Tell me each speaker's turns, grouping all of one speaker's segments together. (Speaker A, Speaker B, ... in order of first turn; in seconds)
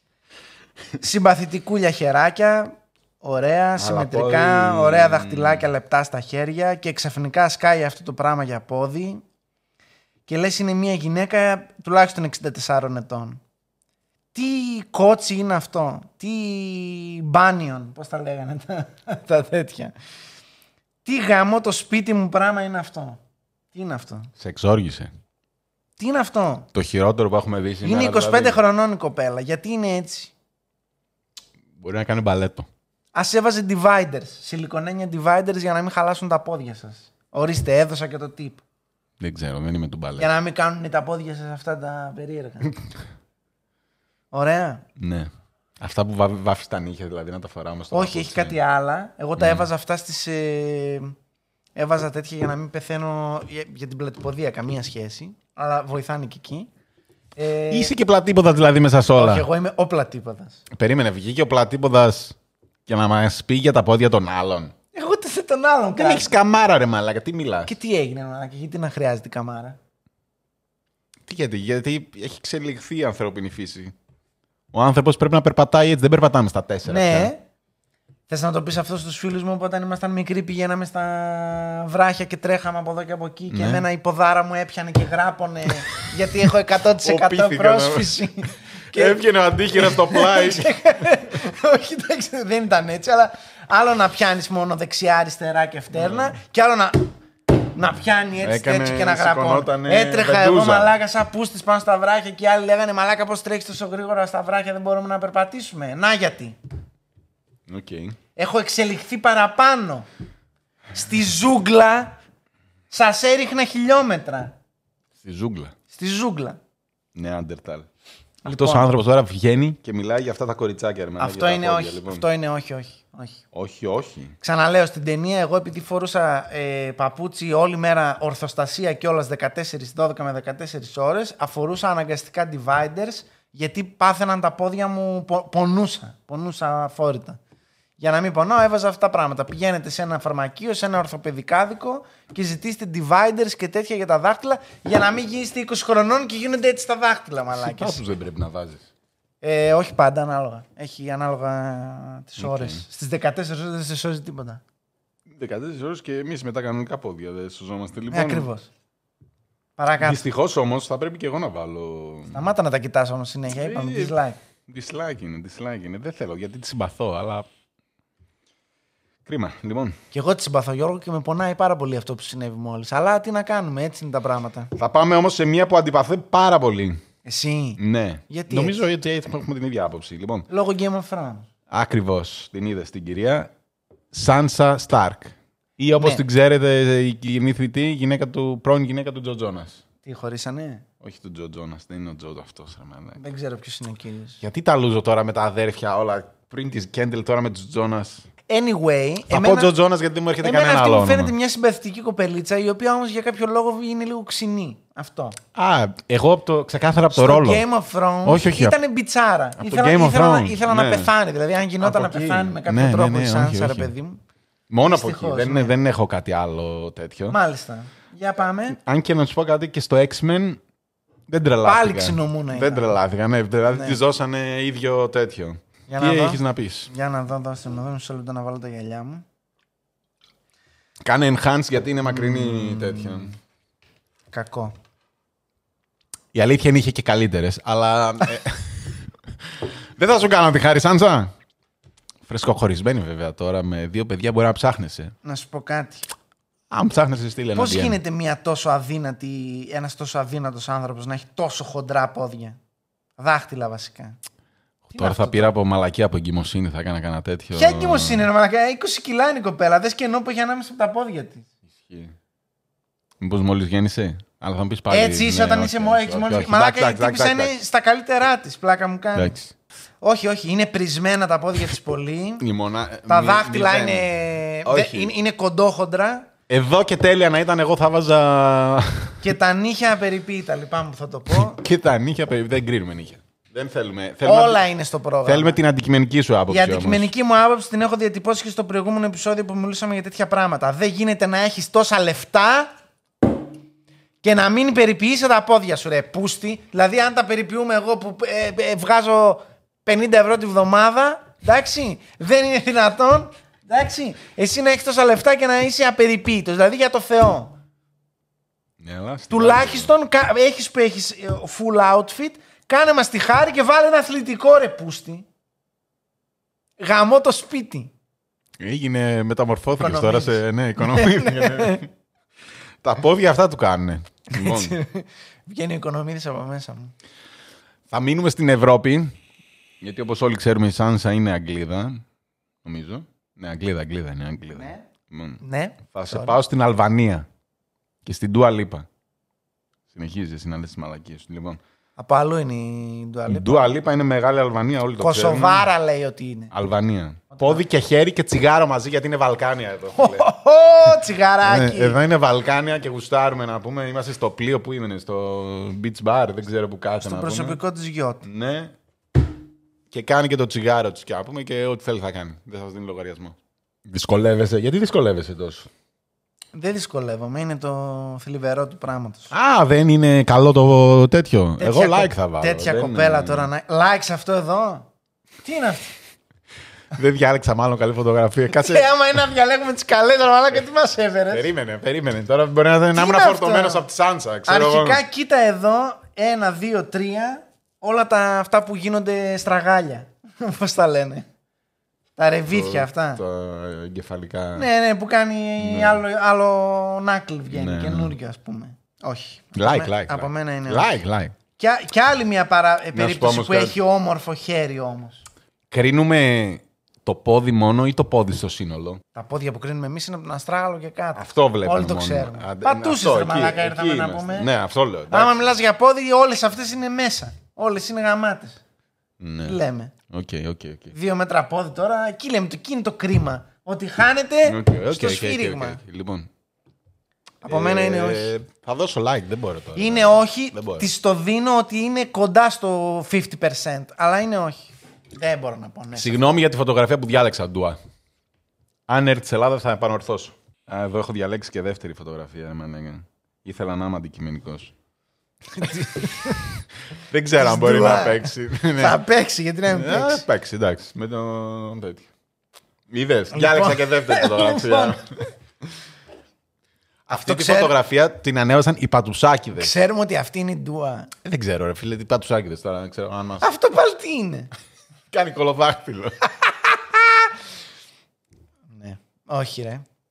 Speaker A: 1.0-9.2, 10.2-13.4, 14.3-19.9, 21.1-23.2, 23.7-24.3, 26.0-26.7, 27.8-30.3, 33.1-38.6, 40.2-42.8, 44.3-44.9, 47.9-51.1, 51.8-56.7, 57.4-57.9, 59.1-60.6, 64.9-66.3, 67.6-69.8, 76.9-77.4, 78.3-106.6, 108.4-110.1, 110.9-112.2, 112.9-114.5, 115.9-116.6, 118.4-118.9, 121.2-123.4, 124.4-137.4, 138.0-148.0, 149.4-154.6, 158.1-158.7, 159.8-160.2, 162.3-164.4, 170.1-174.7, 177.2-178.8, 180.5-181.5, 186.0-186.2, 190.1-190.8, 193.2-194.4, 198.5-199.7, 200.4-205.4, 207.1-214.2, 214.8-215.7, 217.3-218.8, 221.6-222.9, 223.7-224.0, 225.9-229.2, 232.1-233.3, 234.3-234.7, 245.2-246.1, 247.5-252.6, 253.2-254.2, 254.9-255.5, 257.5-261.5, 264.9-269.4, 270.0-272.4, 273.1-276.3, 279.2-281.6, 284.2-285.6, 286.5-292.7, 294.2-307.5, 309.3-315.2, 316.8-317.9, 319.8-321.9, 324.3-326.9, 334.5-334.9, 335.4-336.4, 342.0-343.7, 345.0-346.5, 347.3-347.6, 349.9-352.0, 357.0-358.2, 366.5-369.3, 371.6-374.9, 375.4-375.9, 378.5-381.5, 382.9-383.9, 384.4-391.2, 392.1-393.2, 394.6-400.9, 401.6-405.2, 409.1-414.5, 415.1-418.6, 419.4-419.9, 420.9-425.8, 427.4-428.3, 429.8-436.3, 445.6-446.4, 447.4-450.2, 453.3-455.1, 457.1-457.7, 459.6-461.1, 463.4-464.5, 466.4-467.2, 468.7-469.9
Speaker B: 3.8-5.7, 24.4-25.1, 26.7-28.6, 31.8-32.7, 39.2-40.3, 45.0-48.6, 49.4-49.7, 57.7-59.5, 60.7-62.4, 62.9-64.7, 65.9-67.7, 71.3-73.9, 74.7-77.3, 83.5-83.8, 86.0-86.3, 87.0-88.3, 88.9-90.8, 96.0-96.3, 98.4-100.9, 107.7-108.2, 115.2-115.7, 117.1-117.9, 118.4-122.2, 123.5-124.4, 147.5-148.9, 152.4-152.8, 155.3-158.5, 160.0-162.5, 163.5-164.1, 164.7-167.5, 169.2-170.0, 174.8-177.0, 177.8-180.5, 181.7-183.5, 184.1-189.8, 191.0-193.2, 194.4-198.3, 199.3-201.3, 205.6-207.6, 208.2-208.8, 209.6-211.1, 211.8-213.9, 214.7-217.4, 218.7-220.6, 221.3-226.9, 231.0-233.3, 236.3-241.3, 242.2-245.1, 246.7-248.0, 254.9-258.3, 261.7-262.1, 263.2-267.6, 269.1-269.5, 272.4-274.1, 274.6-275.1, 276.5-279.2, 281.3-284.6, 285.2-287.1, 308.8-309.9, 318.6-321.9, 322.8-324.8, 327.9-329.1, 329.8-332.0, 332.6-335.4, 335.9-337.3, 338.1-338.9, 339.9-341.6, 343.3-345.7, 346.5-350.3, 350.9-357.6, 358.2-358.7, 359.9-365.7, 369.3-373.5, 376.9-378.9, 381.3-385.0, 392.5-394.7, 395.6-396.0, 397.5-398.1, 399.6-401.4, 402.9-403.8, 405.7-409.0, 411.1-415.5, 419.2-420.9, 424.4-426.3, 427.4-430.9, 435.9-437.8, 438.9-444.7, 445.6-446.5, 447.1-449.0, 449.7-452.1, 452.9-455.0, 457.1-459.7, 461.2-463.5, 465.1-466.2